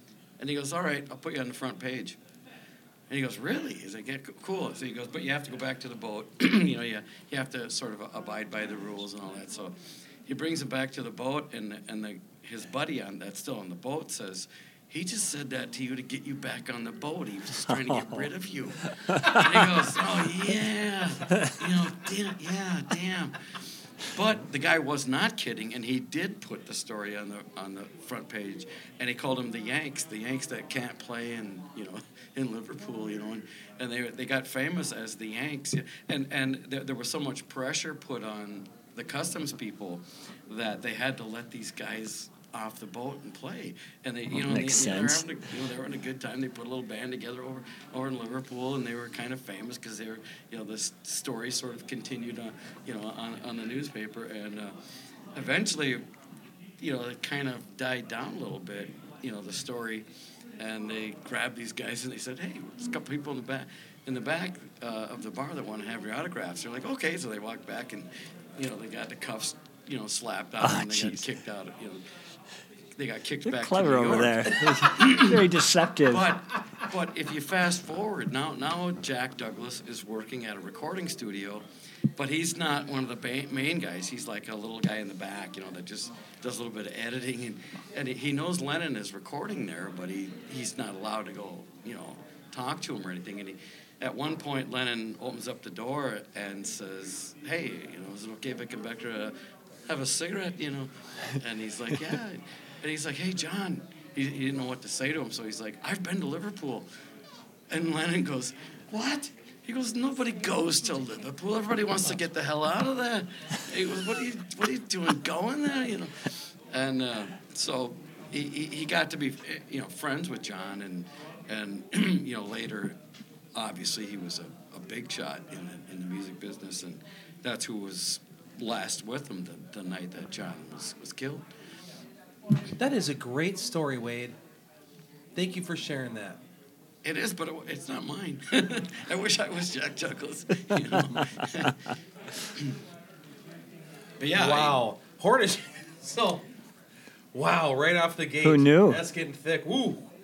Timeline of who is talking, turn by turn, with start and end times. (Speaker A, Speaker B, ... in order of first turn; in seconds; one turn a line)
Speaker A: 0.4-2.2
Speaker A: 3.1-23.4
Speaker B: 17.9-18.2
Speaker B: 19.1-19.4
Speaker A: 24.1-54.8
Speaker B: 44.3-45.2
Speaker A: 55.3-56.0
Speaker A: 56.8-60.1
Speaker A: 60.6-72.0
Speaker B: 70.6-71.2
Speaker A: 73.0-75.5
Speaker B: 73.4-76.3
Speaker A: 76.1-99.3
Speaker A: 99.9-106.9
Speaker A: 107.7-123.0
Speaker A: 123.5-131.5
Speaker C: 132.8-134.4
Speaker C: 135.3-136.4
Speaker A: 137.0-141.8
Speaker A: 144.2-144.8
Speaker C: 144.3-146.5
Speaker C: 147.3-150.1
Speaker B: 148.4-149.0